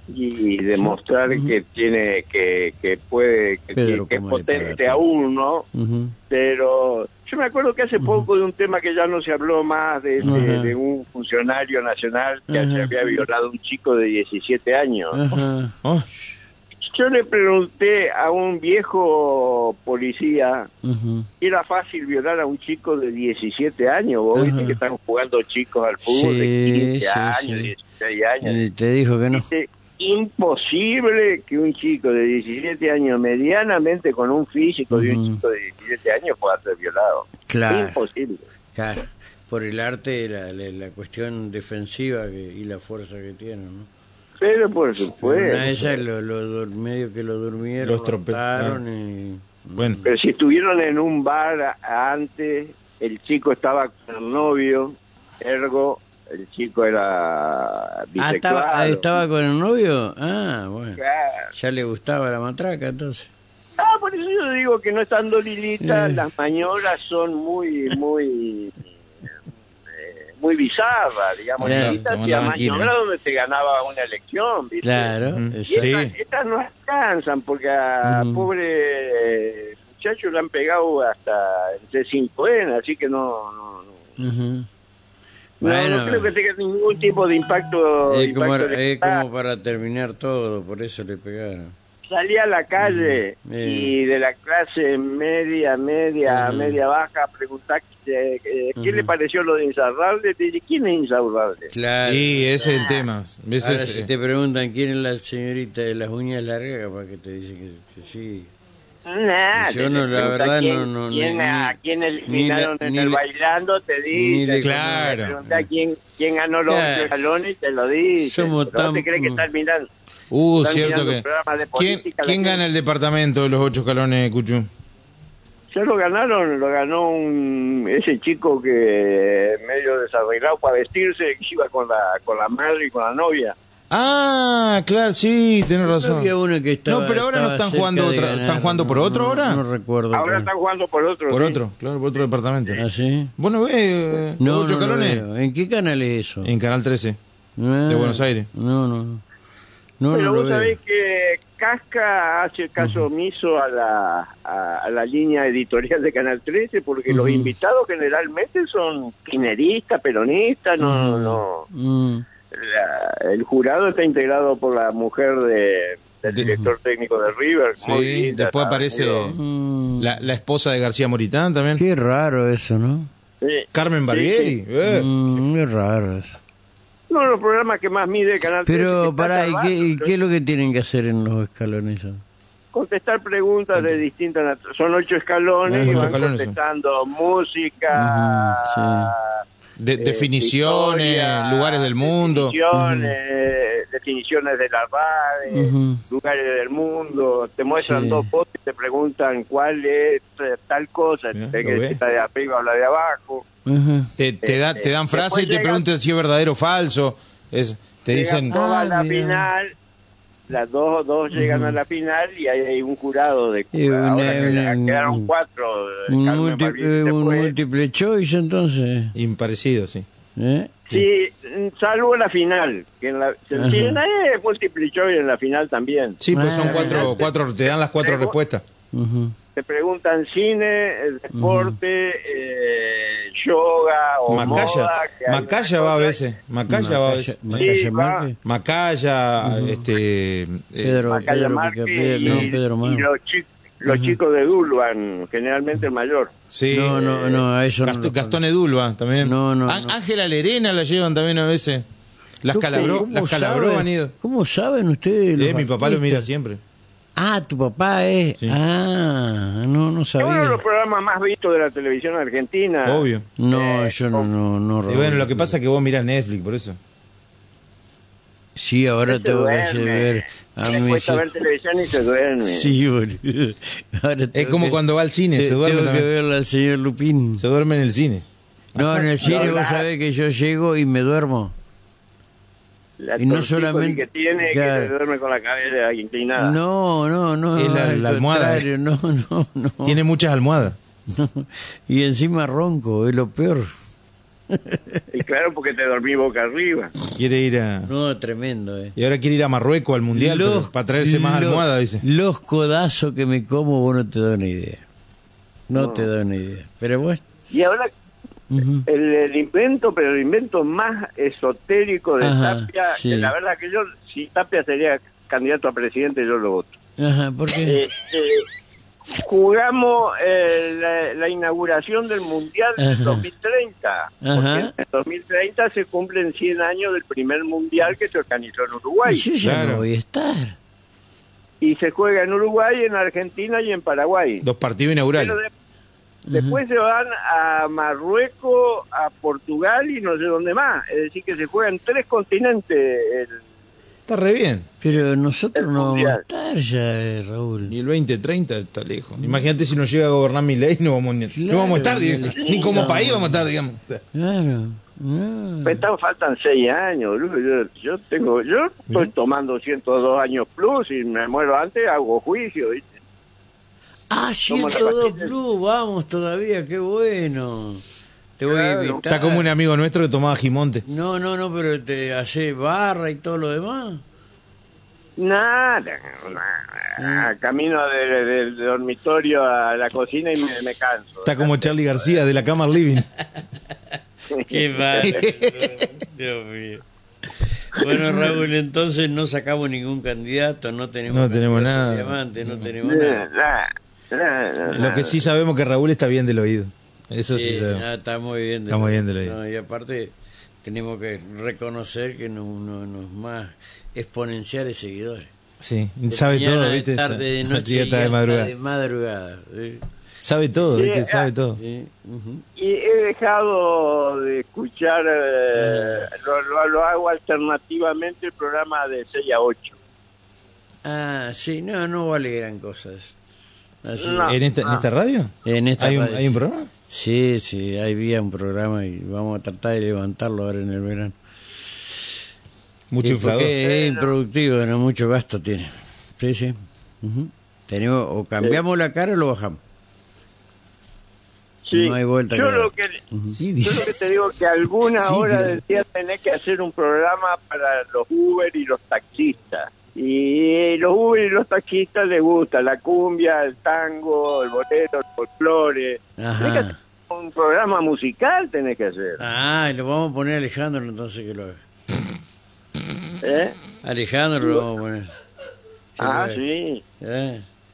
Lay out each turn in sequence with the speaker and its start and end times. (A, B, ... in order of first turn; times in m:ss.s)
0:00.1-0:05.7 A
0:00.8-0:01.5 B
0:03.7-0:05.0 B
0:05.7-0:06.1 B
0:06.3-0:15.2 A
0:08.0-0:08.3 B
0:10.2-0:10.7 B
0:12.5-0:13.2 B
0:15.1-0:15.8 B
0:16.8-0:20.7 A
0:20.8-0:21.3 B
0:21.4-0:28.6 A
0:24.3-0:24.8 B
0:26.0-0:27.7 B
0:28.4-0:29.4 B
0:29.3-0:38.4 A
0:34.9-0:35.4 B
0:37.5-0:38.0 B
0:38.7-0:43.9 B
0:44.4-0:46.0 A
0:45.2-0:50.1 B
0:47.8-0:48.8 C
0:50.0-0:59.2 A
0:58.2-1:01.0 B
1:01.0-1:01.5 A
1:01.5-1:03.3 B
1:03.8-1:08.8 A
1:05.8-1:06.2 B
1:09.9-1:15.1 A
1:11.6-1:12.9 C
1:11.6-1:12.0 B
1:14.8-1:15.9 B
1:15.3-1:16.1 C
1:15.7-1:23.9 A
1:18.0-1:18.5 B
1:24.2-1:24.7 B
1:25.6-1:29.2 A
1:25.6-1:26.3 B
1:28.1-1:31.7 B
1:32.1-1:41.7 A
1:32.8-1:33.9 B
1:36.2-1:36.8 B
1:38.8-1:39.1 B
1:41.7-1:42.5 B
1:42.0-1:44.1 C
1:42.6-1:43.0 A
1:43.6-1:48.5 B
1:49.0-1:59.9 A
1:49.5-1:51.8 B
1:52.3-1:53.2 B
1:54.1-1:55.7 B
1:54.6-1:55.4 C
1:56.7-1:57.1 B
1:58.2-1:59.4 B
2:00.3-2:01.2 C
2:00.6-2:02.6 A
2:01.8-2:04.7 C
2:05.7-2:13.5 A
2:13.9-2:16.3 C
2:15.8-2:20.5 B
2:16.8-2:19.6 C
2:20.1-2:21.6 A
2:21.3-2:22.8 C
2:22.7-2:23.3 B
2:23.4-2:25.2 C
2:24.4-2:26.5 B
2:26.4-2:27.2 C
2:27.6-2:29.2 B
2:27.9-2:28.5 C
2:30.0-2:30.8 B
2:30.1-2:41.7 A
2:37.1-2:37.5 B
2:40.8-2:42.2 B
2:42.5-2:49.3 A
2:46.3-2:46.7 B
2:47.8-2:49.4 C
2:49.2-2:50.1 B
2:50.0-2:51.8 C
2:51.8-2:53.1 B
2:53.4-2:54.6 A
2:53.7-2:55.1 C
2:54.8-2:56.4 B
2:57.1-3:00.1 A
2:58.6-3:02.2 B
3:02.7-3:09.4 A
3:05.7-3:06.2 B
3:05.8-3:06.5 C
3:07.9-3:09.1 B
3:09.8-3:12.5 C
3:10.0-3:23.4 A
3:12.7-3:13.1 B
3:15.5-3:16.0 B
3:17.8-3:18.3 B
3:21.3-3:22.0 C
3:23.6-3:24.1 B
3:24.2-3:28.5 C
3:24.4-3:25.8 A
3:28.1-3:29.7 A
3:28.5-3:29.5 B
3:30.5-3:37.5 A
3:31.3-3:31.8 B
3:33.7-3:35.3 B
3:36.1-3:39.2 B
3:39.1-3:40.1 C
3:40.4-3:40.8 B
3:40.9-3:48.3 A
3:43.5-3:44.0 B
3:46.2-3:48.6 C
3:46.3-3:47.2 B
3:48.9-3:49.4 B
3:49.6-3:56.2 A
3:51.3-3:51.8 B
3:54.3-3:57.7 C
3:54.3-3:54.7 B
3:56.7-3:58.4 B
3:57.6-3:58.2 A
3:58.4-4:01.0 C
3:59.4-3:59.9 B
4:00.8-4:03.1 B
4:01.1-4:06.3 A
4:02.2-4:02.5 C
4:03.8-4:04.2 B
4:06.5-4:07.0 C
4:06.7-4:08.4 B
4:06.9-4:07.4 A
4:07.8-4:11.8 C
4:09.2-4:10.0 B
4:12.4-4:14.1 C
4:12.5-4:16.2 B
4:15.4-4:16.6 C
4:17.2-4:20.6 B
4:20.2-4:24.3 A
4:22.8-4:23.2 C
4:23.4-4:25.5 B
4:24.9-4:26.8 C
4:28.6-4:31.3 B
4:29.1-4:32.7 A
4:32.4-4:34.8 B
4:34.3-4:36.1 C
4:35.3-4:37.4 B
4:37.4-4:39.6 C
4:38.8-4:41.5 B
4:39.2-4:39.9 A
4:43.0-4:46.6 A
4:43.2-4:44.9 B
4:46.4-4:50.0 B
4:47.6-4:48.7 C
4:49.8-4:50.8 C
4:51.1-4:53.7 B
4:54.5-4:55.1 B
4:55.1-4:56.9 A
4:57.1-4:57.9 C
4:57.8-4:59.0 B
4:59.0-5:02.0 C
5:00.1-5:04.8 B
5:05.7-5:07.2 B
5:05.7-5:06.1 A
5:07.5-5:07.9 A
5:08.5-5:08.8 B
5:08.8-5:16.7 A
5:12.2-5:13.3 B
5:17.0-5:17.8 B
5:17.6-5:18.4 A
5:19.1-5:29.3 A
5:22.8-5:23.2 B
5:24.2-5:24.7 B
5:29.0-5:30.6 B
5:29.4-5:29.8 C
5:31.6-5:34.4 A
5:34.4-5:35.4 C
5:35.2-5:35.5 A
5:36.3-5:36.6 B
5:36.3-5:43.4 A
5:44.1-5:44.7 C
5:44.8-5:47.7 B
5:45.6-5:46.2 A
5:47.7-5:54.0 C
5:51.3-5:53.4 B
5:52.3-5:53.0 A
5:54.1-5:55.8 B
5:55.6-6:02.9 A
6:04.1-6:07.8 B
6:04.5-6:05.3 A
6:08.4-6:09.5 B
6:08.5-6:09.0 A
6:09.0-6:10.8 C
6:10.8-6:14.0 B
6:15.2-6:22.2 A
6:17.0-6:17.3 B
6:21.2-6:23.1 C
6:24.3-6:25.1 A
6:24.4-6:33.3 B
6:25.0-6:25.8 C
6:27.8-6:28.3 A
6:31.1-6:32.7 C
6:32.8-6:35.2 A
6:34.7-6:37.8 C
6:37.3-6:40.1 B
6:38.7-6:39.4 C
6:40.6-6:45.3 B
6:45.6-6:48.5 C
6:46.1-6:49.8 B
6:50.2-6:51.6 C
6:50.7-6:51.3 A
6:51.6-6:52.4 B
6:52.6-6:59.8 A
6:55.6-6:56.1 B
7:00.8-7:03.2 B
7:03.8-7:04.4 B
7:04.0-7:04.8 A
7:04.3-7:06.7 C
7:05.4-7:11.2 B
7:12.9-7:13.5 C
7:13.0-7:19.6 B
7:13.6-7:14.1 A
7:21.6-7:23.0 A
7:21.7-7:23.4 B
7:23.3-7:23.9 C
7:23.6-7:39.2 A
7:25.0-7:25.6 C
7:36.2-7:36.8 B
7:39.2-7:41.6 B
7:43.2-7:43.6 A
7:43.8-7:45.1 B
7:46.0-7:46.4 B
7:46.0-7:46.8 A
7:47.0-7:47.4 B